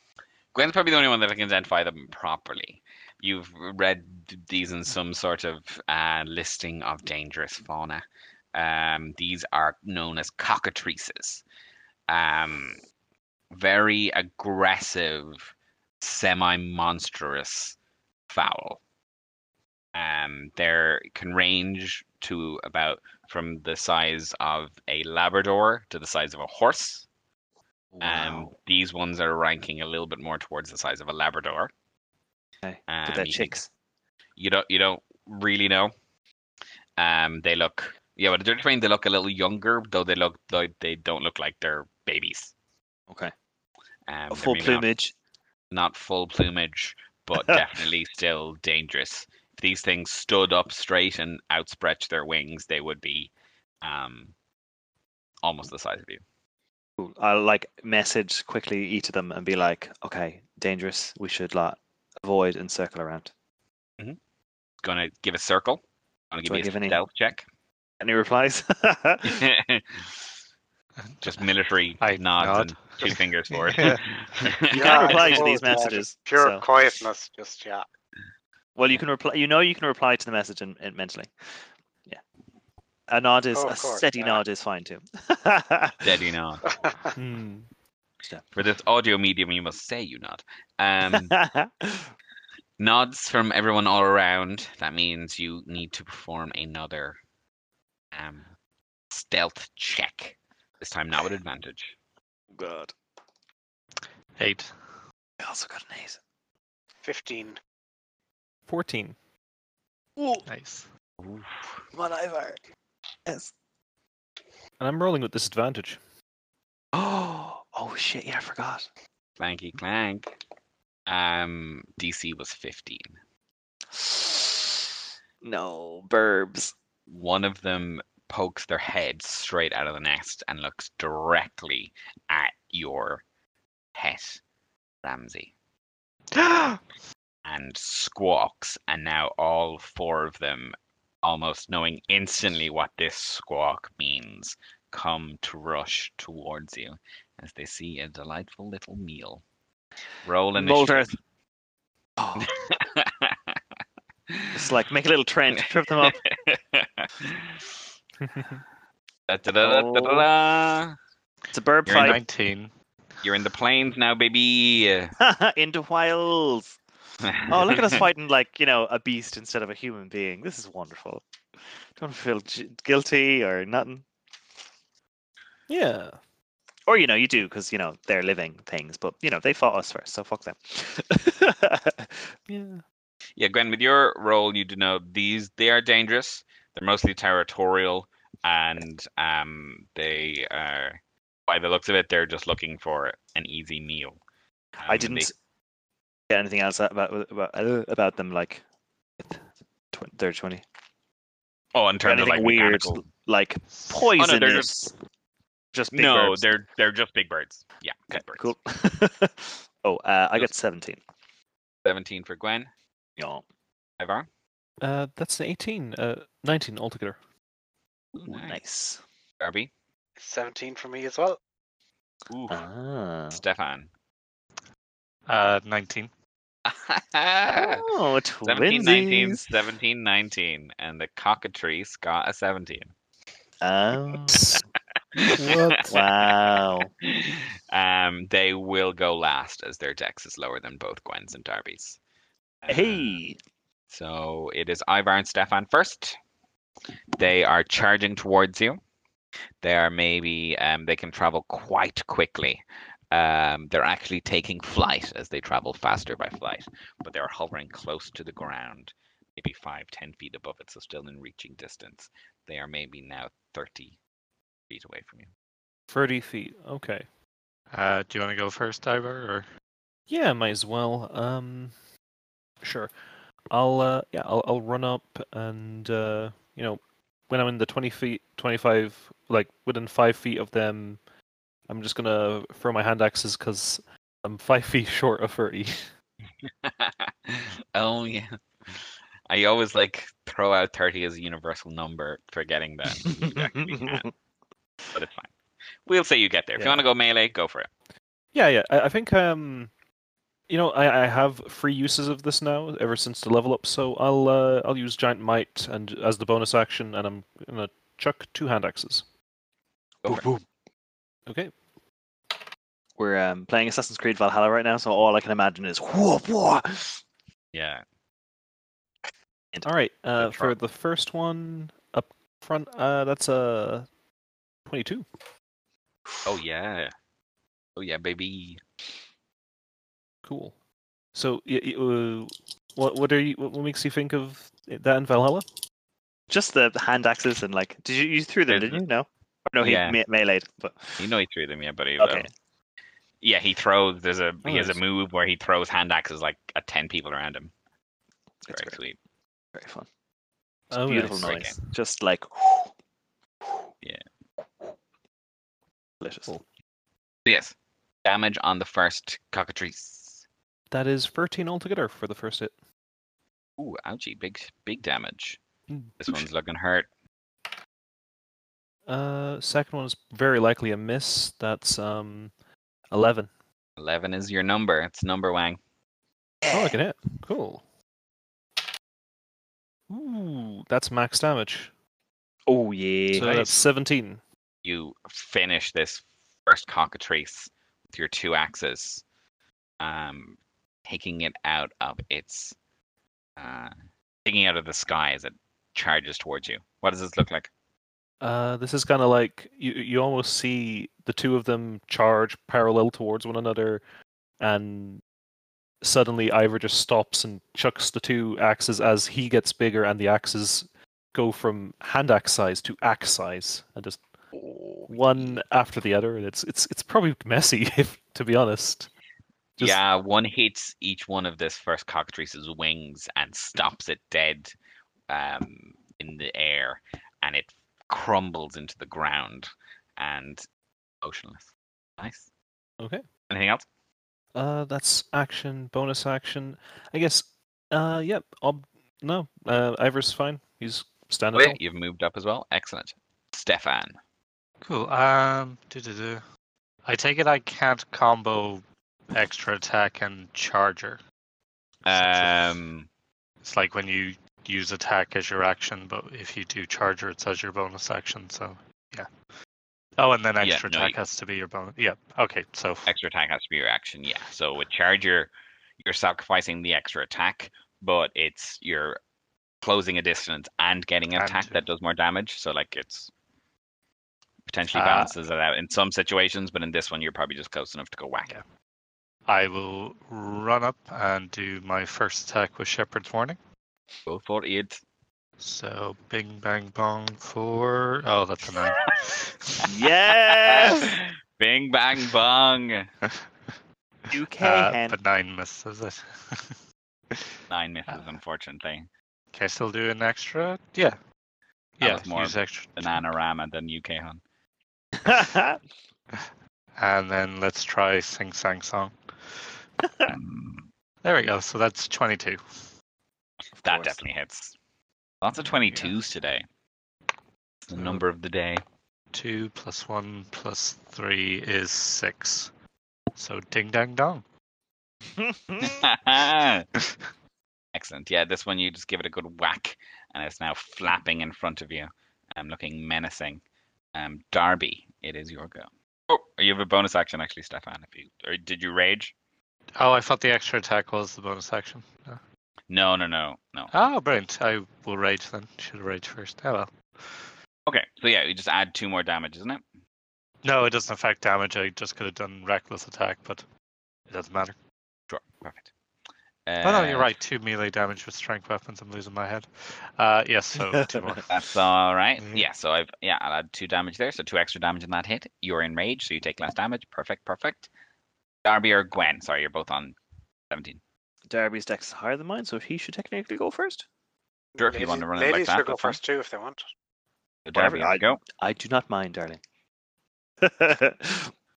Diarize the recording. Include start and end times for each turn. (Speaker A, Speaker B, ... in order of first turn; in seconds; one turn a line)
Speaker A: 0.5-11.4
Speaker A: 12.1-12.8
Speaker A: 13.5-17.8
Speaker A: 18.3-18.8
Speaker A: 19.9-27.1
Speaker B: 27.9-28.5
Speaker A: 28.0-31.7
Speaker B: 32.6-33.7
Speaker A: 32.9-33.5
Speaker A: 34.4-35.9
Speaker A: 37.0-42.5
Speaker A: 44.1-44.9
Speaker B: 44.3-45.1
Speaker A: 45.7-53.3
Speaker A: 53.8-54.3
Speaker A: 55.4-56.2
Speaker B: 57.0-63.3
Speaker A: 64.8-67.4
Speaker B: 66.5-67.0
Speaker B: 68.0-69.4
Speaker A: 69.2-70.2
Speaker C: 71.0-71.4
Speaker A: 71.2-75.3
Speaker C: 72.0-75.5
Speaker D: 74.7-77.8
Speaker B: 74.7-76.7
Speaker B: 78.7-82.2
Speaker B: 83.1-86.2
Speaker D: 83.5-84.4
Speaker A: 86.0-86.6
Speaker D: 86.7-87.1
Speaker E: 87.2-87.7
Speaker A: 88.5-91.4
Speaker B: 91.1-92.1
Speaker A: 92.8-97.2
Speaker A: 98.1-98.4
Speaker A: 99.1-101.9
Speaker B: 102.5-102.9
Speaker C: 104.4-104.8
Speaker B: 105.4-106.2
Speaker D: 107.0-107.6
Speaker E: 108.7-109.2
Speaker B: 110.2-110.4
Speaker C: 110.5-110.9
Speaker A: 111.2-111.8
Speaker B: 111.9-112.6
Speaker B: 113.2-113.5
Speaker E: 114.8-116.0
Speaker B: 116.9-118.9
Speaker A: 119.4-120.3
Speaker A: 121.1-123.2
Speaker B: 123.9-126.7
Speaker A: 127.1-133.2
Speaker A: 133.9-134.4
Speaker A: 135.0-135.5
Speaker C: 136.3-136.8
Speaker A: 137.4-149.4
Speaker A: 150.2-151.2
Speaker B: 150.6-151.1
Speaker B: 152.2-152.5
Speaker A: 152.4-153.6
Speaker A: 154.3-154.6
Speaker B: 154.5-156.2
Speaker A: 155.9-157.6
Speaker A: 159.3-161.0
Speaker B: 159.6-160.2
Speaker B: 161.5-162.2
Speaker A: 161.8-162.2
Speaker C: 161.9-162.7
Speaker A: 163.2-165.1
Speaker B: 165.2-166.8
Speaker A: 167.2-168.0
Speaker B: 167.5-171.2
Speaker B: 171.9-174.1
Speaker E: 175.7-176.2
Speaker B: 176.9-182.3
Speaker E: 182.5-182.8
Speaker A: 183.4-194.2
Speaker A: 194.8-195.3
Speaker B: 194.9-195.3
Speaker B: 196.3-198.6
Speaker B: 199.2-200.6
Speaker A: 201.7-203.0
Speaker B: 202.0-204.9
Speaker A: 204.0-204.7
Speaker B: 205.7-206.5
Speaker A: 205.9-208.5
Speaker B: 208.1-211.0
Speaker A: 211.8-212.7
Speaker B: 213.2-213.4
Speaker A: 214.0-214.3
Speaker E: 214.8-217.2
Speaker A: 218.1-218.6
Speaker B: 218.2-219.0
Speaker A: 219.4-219.7
Speaker D: 220.2-221.4
Speaker A: 222.3-222.6
Speaker B: 222.5-223.4
Speaker A: 223.3-223.9
Speaker C: 225.3-226.1
Speaker A: 226.7-227.8
Speaker B: 227.6-229.4
Speaker A: 228.4-232.9
Speaker B: 233.6-234.5
Speaker E: 234.3-234.6
Speaker A: 235.1-242.0
Speaker E: 235.4-235.9
Speaker B: 235.4-236.9
Speaker A: 242.6-243.2
Speaker B: 242.7-243.4
Speaker A: 243.9-246.2
Speaker A: 247.2-248.8
Speaker A: 249.6-263.9
Speaker A: 264.7-265.3
Speaker E: 265.9-267.1
Speaker C: 267.7-269.5
Speaker E: 270.1-271.7
Speaker E: 272.6-272.9
Speaker E: 273.5-281.0
Speaker E: 281.7-285.9
Speaker A: 286.4-294.1
Speaker B: 292.9-294.1
Speaker A: 294.9-295.3
Speaker A: 295.9-297.7
Speaker B: 296.6-296.8
Speaker E: 298.3-299.7
Speaker E: 300.5-309.1
Speaker B: 310.1-310.4
Speaker E: 311.3-311.6
Speaker B: 313.0-317.0
Speaker A: 317.5-317.8
Speaker E: 319.6-323.9
Speaker A: 320.2-320.5
Speaker E: 324.6-325.1
Speaker A: 326.2-326.9
Speaker A: 327.8-328.6
Speaker E: 330.2-330.6
Speaker E: 331.1-335.4
Speaker B: 336.3-341.1
Speaker A: 338.5-338.8
Speaker A: 339.6-340.0
Speaker A: 341.0-342.3
Speaker B: 342.0-342.3
Speaker A: 343.2-347.5
Speaker B: 344.4-344.8
Speaker B: 348.4-348.8
Speaker A: 348.5-349.0
Speaker B: 349.5-349.9
Speaker E: 350.7-351.6
Speaker B: 350.7-352.7
Speaker A: 351.2-351.6
Speaker B: 356.0-356.4
Speaker A: 357.2-357.5
Speaker A: 358.0-360.2
Speaker E: 360.7-362.5
Speaker A: 363.6-365.4
Speaker E: 365.7-365.9
Speaker A: 366.0-366.9
Speaker E: 368.9-372.3
Speaker E: 372.9-373.3
Speaker A: 373.8-375.6
Speaker B: 376.4-376.8
Speaker E: 376.5-377.6
Speaker E: 379.9-381.7
Speaker B: 382.5-383.5
Speaker E: 383.1-384.2
Speaker A: 384.6-389.0
Speaker A: 389.8-392.5
Speaker A: 393.4-393.7
Speaker A: 394.2-397.5
Speaker E: 398.2-403.8
Speaker E: 404.4-405.0
Speaker E: 405.8-414.0
Speaker A: 414.4-415.4
Speaker E: 414.9-418.9
Speaker A: 419.6-424.5
Speaker A: 425.1-430.4
Speaker A: 431.0-431.5
Speaker A: 432.0-432.2
Speaker E: 432.8-433.0
Speaker A: 433.3-433.6
Speaker E: 434.3-441.6
Speaker A: 441.3-444.0
Speaker C: 444.6-446.2
Speaker C: 446.9-451.0
Speaker A: 451.8-452.9
Speaker C: 451.9-452.4
Speaker C: 453.4-459.1
Speaker C: 460.0-462.9
Speaker A: 460.4-460.9
Speaker A: 462.9-469.0
Speaker A: 469.6-473.1
Speaker C: 471.1-471.6
Speaker A: 474.5-478.3
Speaker C: 474.7-475.1
Speaker C: 479.3-483.4
Speaker A: 484.1-484.8
Speaker C: 485.4-489.7
Speaker B: 489.7-491.0
Speaker A: 490.2-492.9
Speaker B: 494.1-495.0
Speaker C: 494.1-496.6
Speaker C: 497.1-497.4
Speaker A: 497.5-498.9
Speaker C: 499.3-501.0
Speaker C: 501.8-503.0
Speaker A: 501.8-504.2
Speaker B: 505.0-505.6
Speaker C: 506.8-509.5
Speaker B: 509.8-510.1
Speaker A: 510.1-510.6
Speaker C: 511.0-512.6
Speaker B: 513.6-514.0
Speaker A: 513.6-514.5
Speaker A: 515.2-516.4
Speaker A: 517.6-518.6
Speaker C: 519.1-522.5
Speaker C: 523.1-524.2
Speaker B: 525.1-525.8
Speaker A: 525.6-526.6
Speaker A: 527.7-533.4
Speaker A: 533.9-539.1
Speaker C: 539.8-542.2
Speaker A: 542.7-543.7
Speaker C: 543.7-547.3
Speaker A: 547.7-549.6
Speaker C: 550.4-553.4
Speaker C: 554.1-554.5
Speaker A: 555.1-555.7
Speaker A: 556.5-557.1
Speaker C: 556.6-561.3
Speaker B: 560.7-561.2
Speaker A: 561.3-567.7
Speaker C: 562.2-562.5
Speaker A: 568.4-570.0
Speaker A: 570.5-570.8
Speaker B: 571.3-573.8
Speaker D: 574.5-576.6
Speaker A: 574.6-576.0
Speaker A: 577.4-578.2
Speaker B: 577.5-579.4
Speaker B: 580.4-581.3